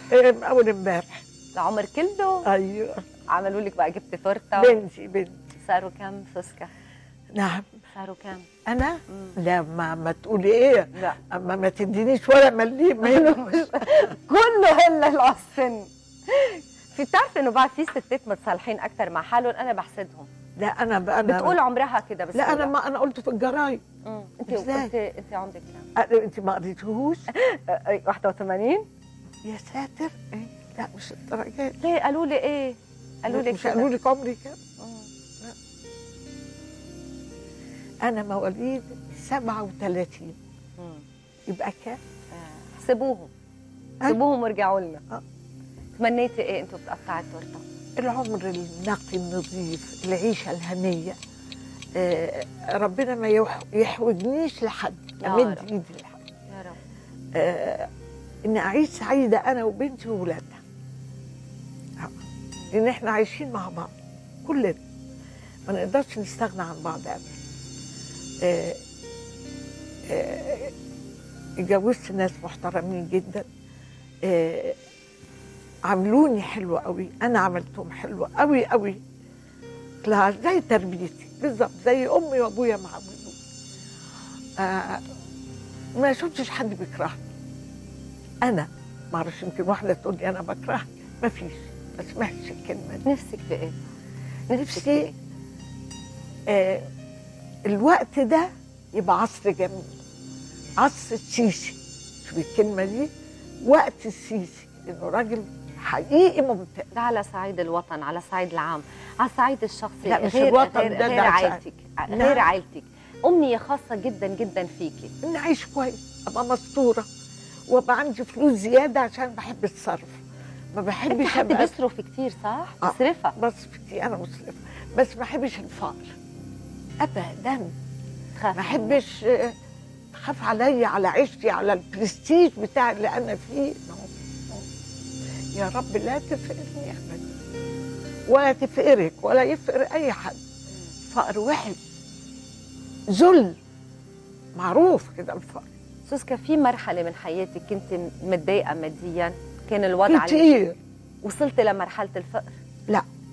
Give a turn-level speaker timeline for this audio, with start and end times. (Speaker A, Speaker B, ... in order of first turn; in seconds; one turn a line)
Speaker A: 0.1-1.2
Speaker B: 1.5-2.5
Speaker A: 2.4-3.0
Speaker B: 3.3-4.8
Speaker A: 4.5-5.4
Speaker B: 5.6-6.7
Speaker A: 7.3-7.7
Speaker B: 7.9-8.5
Speaker A: 8.7-14.1
Speaker B: 13.0-20.3
Speaker A: 20.6-21.6
Speaker B: 21.2-22.7
Speaker A: 22.3-23.8
Speaker B: 24.0-25.9
Speaker A: 24.4-24.9
Speaker A: 25.9-27.3
Speaker B: 27.3-28.9
Speaker A: 29.4-31.8
Speaker B: 31.8-33.9
Speaker A: 33.3-34.6
Speaker B: 34.8-35.1
Speaker A: 38.0-40.4
Speaker B: 40.8-41.0
Speaker A: 41.5-42.0
Speaker B: 42.3-43.3
Speaker B: 44.0-45.0
Speaker B: 46.0-47.6
Speaker A: 48.0-51.2
Speaker A: 52.0-56.2
Speaker B: 55.2-55.6
Speaker B: 56.5-56.8
Speaker A: 57.3-57.9
Speaker A: 58.5-60.6
Speaker A: 62.7-63.9
Speaker A: 64.4-64.8
Speaker A: 65.7-67.2
Speaker A: 68.4-68.8
Speaker A: 70.0-70.7
Speaker A: 71.6-73.5
Speaker A: 74.2-74.8
Speaker A: 75.9-79.0
Speaker A: 80.0-83.4
Speaker A: 84.6-85.0
Speaker A: 86.0-87.2
Speaker A: 88.4-93.0
Speaker B: 93.0-93.8
Speaker B: 94.5-95.2
Speaker A: 94.5-95.1
Speaker A: 96.5-96.8
Speaker A: 97.7-99.9
Speaker A: 100.8-103.1
Speaker A: 103.6-106.9
Speaker B: 106.9-115.1
Speaker A: 110.0-112.5
Speaker A: 115.2-117.1
Speaker A: 117.7-120.2
Speaker A: 120.7-121.7
Speaker B: 121.1-123.3
Speaker A: 122.8-126.1
Speaker A: 127.0-127.7
Speaker B: 128.3-129.0
Speaker A: 128.5-129.5
Speaker A: 130.1-134.6
Speaker A: 135.5-137.2
Speaker A: 138.3-140.4
Speaker A: 141.1-141.8
Speaker A: 143.1-143.6
Speaker A: 144.6-145.7
Speaker B: 146.1-150.5
Speaker A: 150.1-150.8
Speaker B: 151.2-152.5